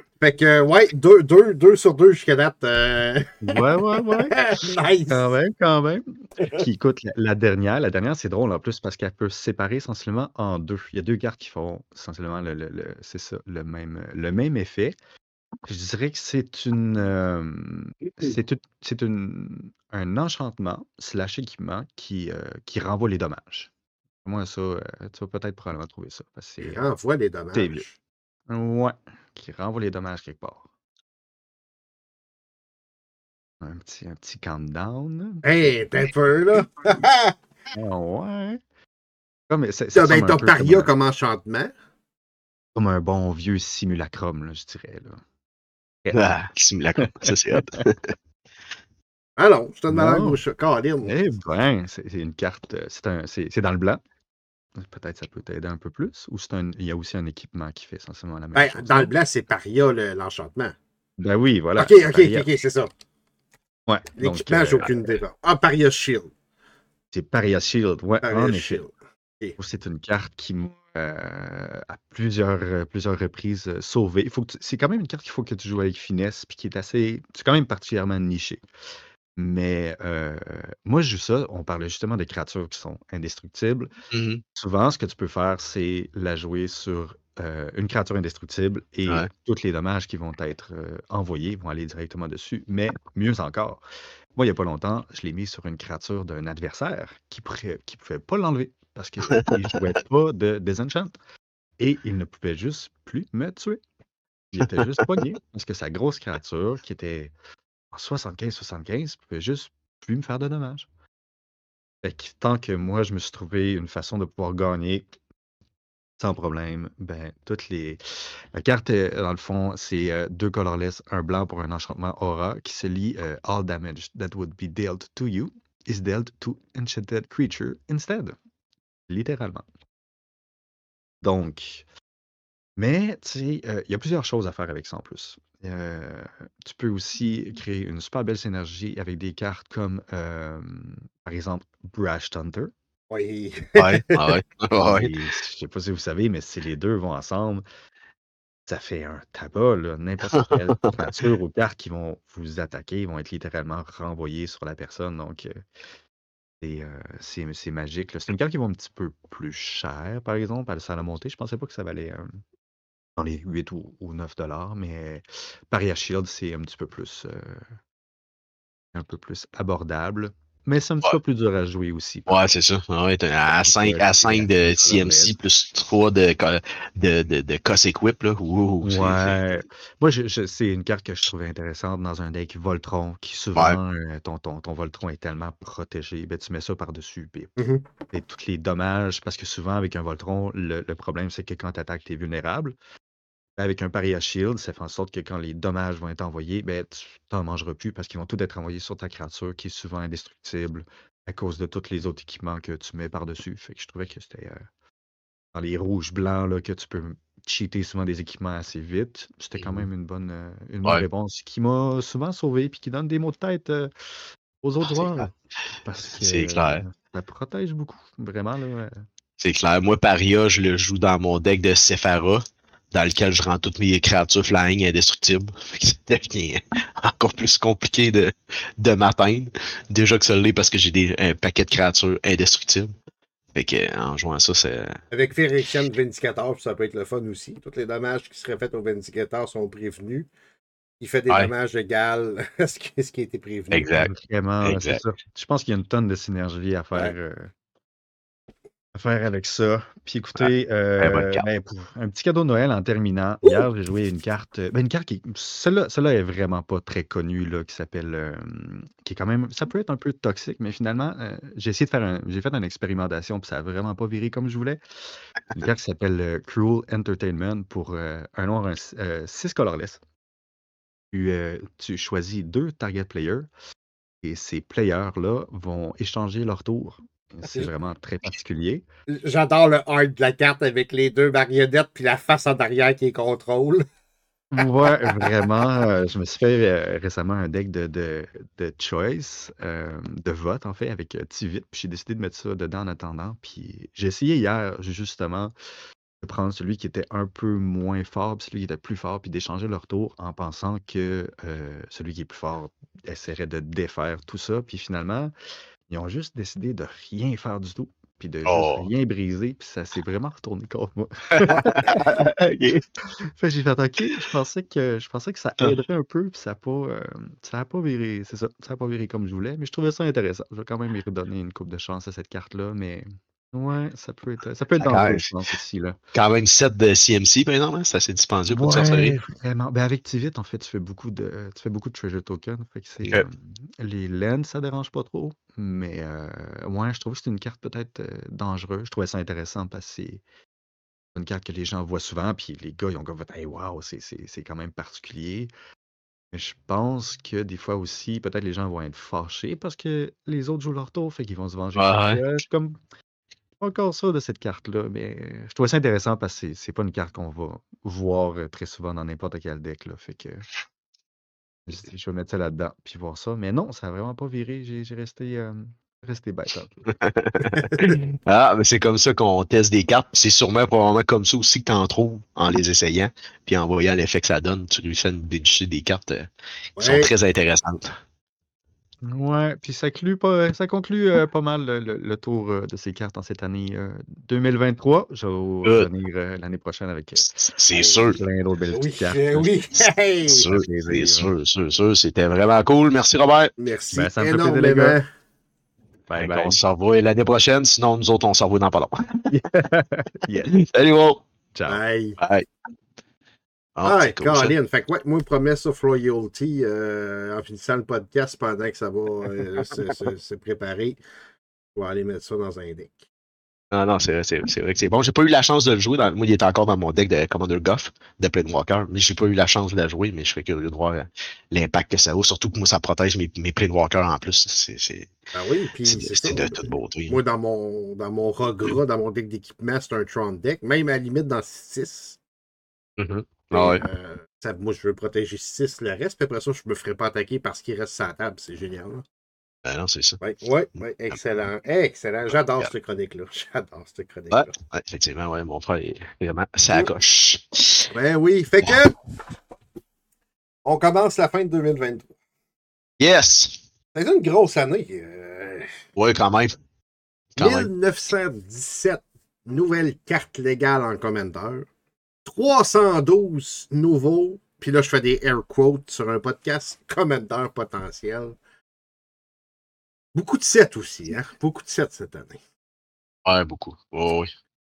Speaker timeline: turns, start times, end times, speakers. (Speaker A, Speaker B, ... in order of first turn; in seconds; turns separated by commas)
Speaker A: 0.2-5.3, Speaker B: 3.4-4.4, Speaker B: 5.1-14.9, Speaker B: 15.7-23.7, Speaker B: 24.2-26.9, Speaker A: 26.6-27.9, Speaker B: 27.5-27.9, Speaker B: 28.5-30.6, Speaker B: 33.6-36.1, Speaker A: 35.4-37.4, Speaker B: 37.7-38.6, Speaker B: 39.5-40.9, Speaker A: 39.9-41.7, Speaker B: 42.7-45.2, Speaker B: 46.0-46.3, Speaker C: 46.1-48.1, Speaker B: 47.0-47.8, Speaker A: 49.4-51.1, Speaker B: 49.9-50.4, Speaker B: 51.0-54.0, Speaker B: 54.8-59.1, Speaker A: 58.5-60.8, Speaker B: 61.2-62.5, Speaker A: 61.8-62.9, Speaker B: 63.9-65.0, Speaker A: 64.2-66.3, Speaker B: 67.1-68.8, Speaker A: 68.2-69.5, Speaker B: 69.6-78.6, Speaker B: 79.4-83.9, Speaker C: 84.1-84.4, Speaker B: 84.5-93.8, Speaker B: 94.3-101.1, Speaker C: 99.4-99.7, Speaker B: 101.8-103.8, Speaker B: 104.5-107.3, Speaker B: 107.9-110.9, Speaker B: 112.0-115.1, Speaker B: 116.2-128.4, Speaker B: 129.1-129.7, Speaker B: 131.2-131.8, Speaker B: 132.8-142.7, Speaker A: 143.1-144.4, Speaker C: 143.8-145.2, Speaker B: 144.8-147.6, Speaker B: 148.7-155.6, Speaker B: 156.6-162.4, Speaker B: 163.2-167.8, Speaker B: 168.9-172.4, Speaker C: 172.3-179.4, Speaker B: 173.6-175.3, Speaker B: 178.8-187.6, Speaker A: 187.6-187.8, Speaker B: 188.1-192.7, Speaker B: 193.6-204.7, Speaker B: 205.5-213.9, Speaker C: 209.6-209.9, Speaker B: 214.6-215.3, Speaker C: 214.8-215.3, Speaker B: 215.8-219.1, Speaker C: 216.2-216.8, Speaker C: 219.4-232.9, Speaker C: 233.5-235.0, Speaker A: 235.1-240.3, Speaker A: 241.0-243.9, Speaker C: 243.7-244.1, Speaker B: 244.0-247.5, Speaker C: 244.6-245.0, Speaker B: 248.9-264.8, Speaker C: 251.0-251.4, Speaker B: 265.5-270.0, Speaker B: 271.1-273.5, Speaker B: 274.2-278.8, Speaker A: 279.1-283.8, Speaker B: 284.5-295.5, Speaker A: 284.8-285.5, Speaker B: 296.2-305.3, Speaker B: 305.9-312.1, Speaker C: 308.4-308.9, Speaker C: 311.3-312.8, Speaker B: 313.2-326.0, Speaker C: 324.8-325.3, Speaker C: 326.1-329.1, Speaker B: 328.5-340.2, Speaker A: 328.6-329.2, Speaker B: 341.1-345.5, Speaker B: 346.3-352.8, Speaker C: 351.7-352.2, Speaker B: 353.6-360.5, Speaker B: 361.7-366.8, Speaker C: 367.0-378.0, Speaker A: 367.6-368.0, Speaker A: 376.8-377.1, Speaker B: 379.0-389.6, Speaker C: 387.2-388.2, Speaker A: 387.7-388.1, Speaker A: 388.7-390.5, Speaker C: 390.3-393.5, Speaker B: 390.4-391.3, Speaker A: 393.6-395.0, Speaker B: 393.9-395.0, Speaker B: 396.1-396.6, Speaker C: 396.2-399.3, Speaker B: 399.3-400.5, Speaker C: 400.5-401.2, Speaker B: 401.5-401.8, Speaker A: 401.7-402.2, Speaker C: 402.2-402.4, Speaker C: 403.8-404.5, Speaker A: 403.8-411.0, Speaker A: 411.7-413.0, Speaker C: 413.7-425.1, Speaker A: 425.3-432.2, Speaker C: 425.8-427.2, Speaker C: 433.0-433.8, Speaker A: 433.5-439.0, Speaker C: 439.6-440.2, Speaker A: 440.2-444.5, Speaker C: 444.3-447.9, Speaker A: 447.9-449.0, Speaker A: 450.6-452.1, Speaker C: 453.0-453.6, Speaker A: 453.9-455.8, Speaker C: 455.9-456.5, Speaker C: 457.4-457.7, Speaker A: 457.4-461.7, Speaker A: 462.2-468.4, Speaker A: 470.1-472.4, Speaker C: 473.2-474.3